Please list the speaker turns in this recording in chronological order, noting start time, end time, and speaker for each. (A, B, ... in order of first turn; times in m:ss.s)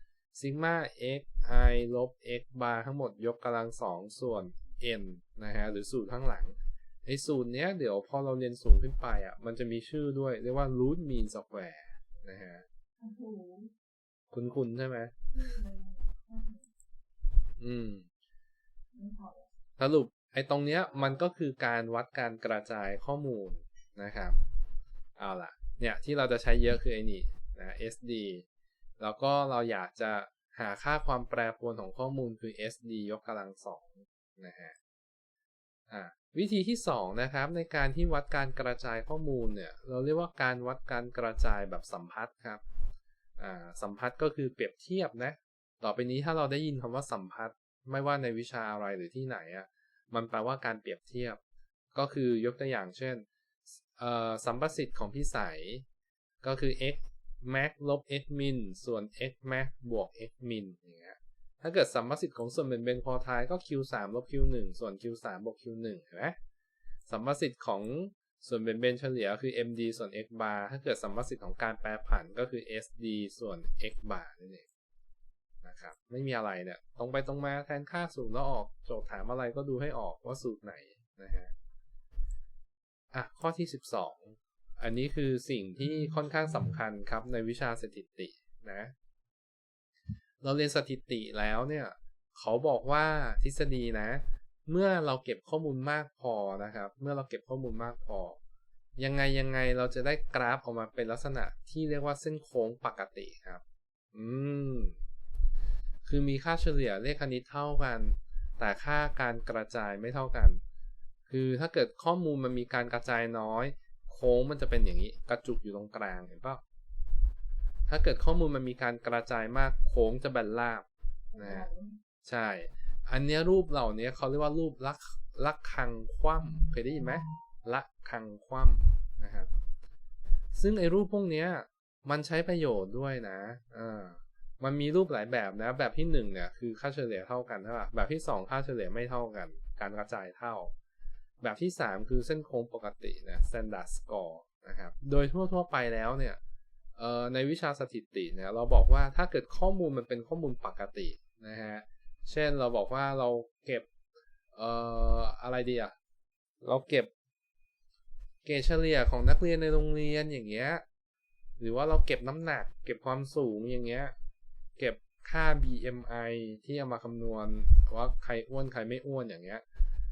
0:00.3-0:12.6 A
0:13.0-0:13.7 B
0:14.3-0:15.1 A
0:15.3-0:16.7 B
0:17.6-0:18.1 A
0:18.9-0:19.5 B
0:19.8-0:24.4 A
0:25.2-0:28.5 A
0:29.0-0:34.8 A
0:35.9-0:42.6 A
0:43.4-0:51.4 A
0:51.9-0:53.3 A
0:53.8-0:55.8 A
0:56.4-1:06.4 A
1:07.1-1:14.7 A
1:15.6-1:21.5 A
1:23.1-1:28.9 A
1:30.4-1:38.4 A
1:39.0-1:43.6 A
1:44.1-1:45.0 A
1:46.0-1:50.6 A
1:51.3-1:56.6 A
1:57.9-2:00.9 A
2:01.3-2:02.0 B
2:01.4-2:01.7 A
2:02.2-2:09.5 A
2:10.5-2:20.7 A
2:21.4-2:26.4 A
2:27.0-2:33.9 A
2:34.6-2:36.0 A
2:36.6-2:37.1 A
2:38.4-2:40.8 A
2:41.6-2:44.1 A
2:44.8-2:49.6 A